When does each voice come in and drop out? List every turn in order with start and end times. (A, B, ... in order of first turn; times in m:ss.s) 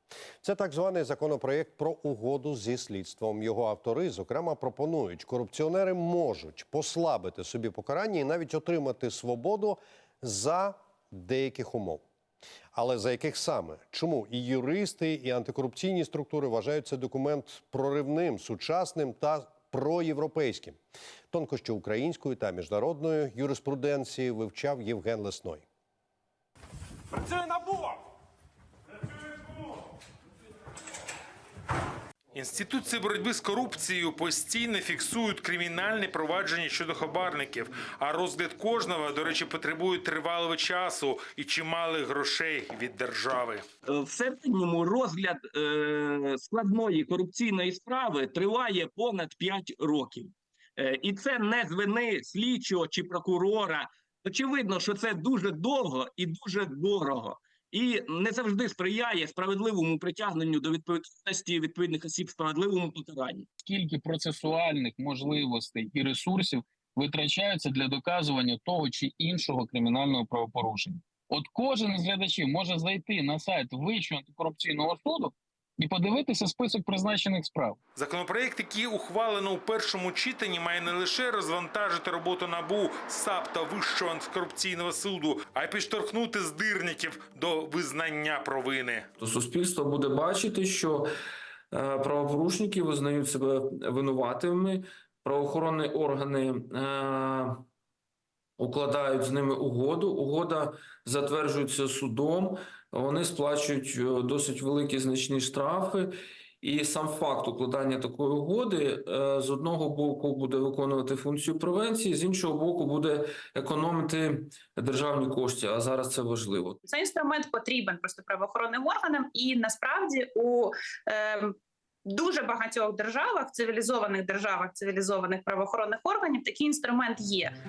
0:00.4-0:12.0 A
0:12.7-0:20.8 A
0:21.3-0:25.6 A
0:27.4-0:27.9 B
0:32.3-0:43.6 B
0:43.9-1:03.5 C
1:03.6-1:17.8 D
1:18.0-1:29.1 B
1:29.2-1:31.1 E
1:31.7-1:37.7 E
1:38.6-1:56.8 E
1:56.9-2:07.5 F